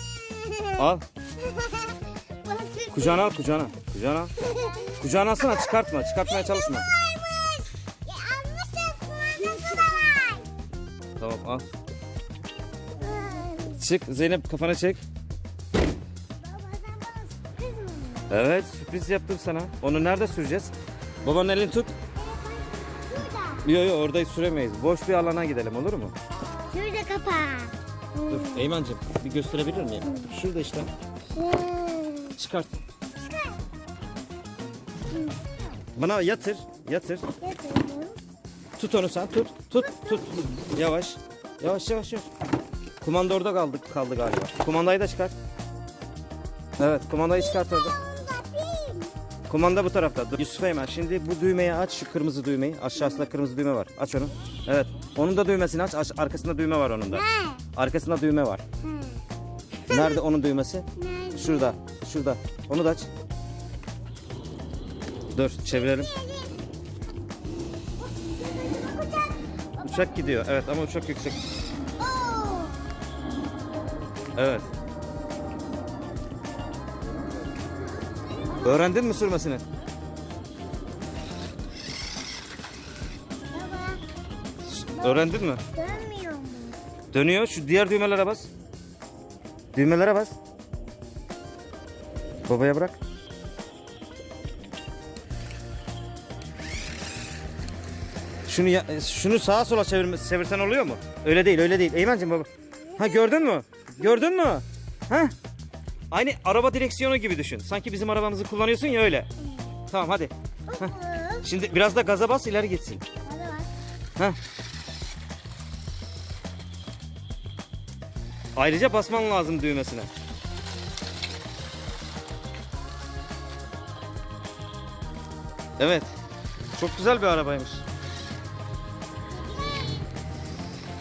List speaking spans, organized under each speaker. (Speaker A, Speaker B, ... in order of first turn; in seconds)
Speaker A: 0.2-0.8, 1.4-3.4, 4.4-5.7, 6.2-10.5, 13.0-13.8, 16.4-18.3, 22.2-23.6, 26.7-28.7, 31.3-32.4, 33.2-33.6, 35.1-35.4, 37.4-38.2, 39.8-40.3, 47.4-49.1, 57.1-57.6, 58.8-59.2, 59.9-60.2, 61.0-61.7, 65.7-66.6, 68.0-70.2, 72.0-72.8, 78.4-78.8, 83.5-84.0, 85.0-86.8, 110.7-111.4, 113.2-113.7, 129.3-130.1
Speaker B: 0.8-1.0, 2.9-4.3, 5.0-6.9, 11.2-11.6, 13.8-15.0, 18.3-20.7, 21.2-21.9, 23.6-26.1, 28.3-30.9, 32.4-32.7, 36.0-37.2, 38.8-42.3, 43.0-45.3, 46.8-48.0, 49.5-58.6, 59.9-63.1, 65.3-66.1, 69.8-71.4, 74.4-74.7, 78.6-79.6, 84.7-85.6, 87.1-88.5, 89.7-90.4, 92.5-93.0, 98.5-105.3, 106.1-109.3, 109.9-110.9, 111.4-113.0, 118.5-120.1, 125.8-126.1, 126.8-127.8